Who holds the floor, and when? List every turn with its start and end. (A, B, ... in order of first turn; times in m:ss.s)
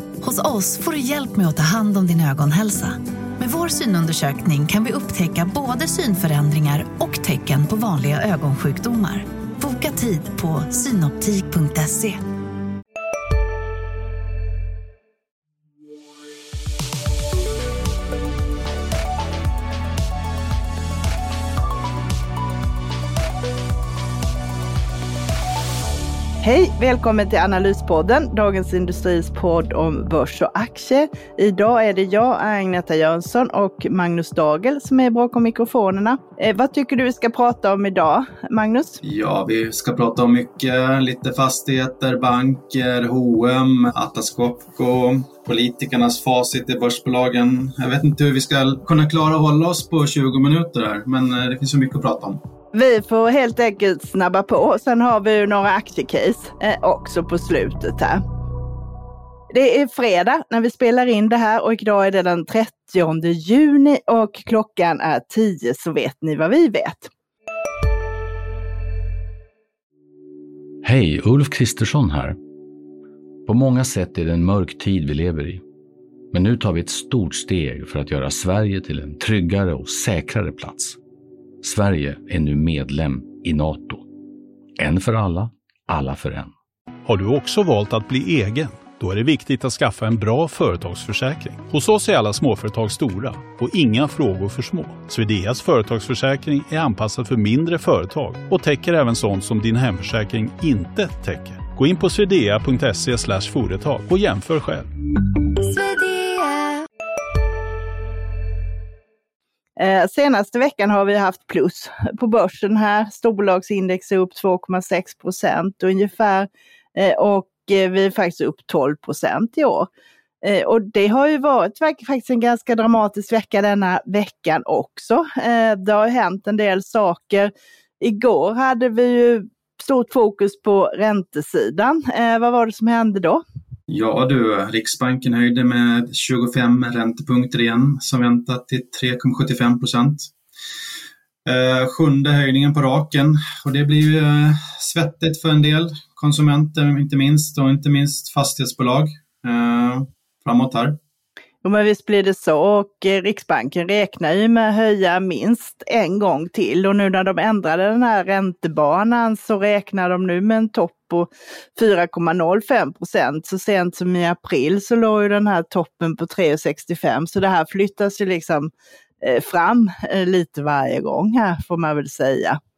0:00.2-0:12.2 A
0:26.4-0:39.0 B
0:39.0-0:52.4 C
0:52.7-0:58.2 B
0:59.5-1:07.1 B
1:10.8-1:12.4 D
1:13.5-1:15.6 D
1:16.3-1:21.0 D
1:21.6-1:24.0 D
1:24.8-1:26.5 D
1:27.1-1:44.9 E
1:45.7-1:46.7 A
1:49.8-1:59.9 B
2:00.4-2:13.4 B
2:13.9-2:20.3 C
2:21.5-2:31.0 C
2:31.6-2:48.7 B
2:49.2-2:52.6 B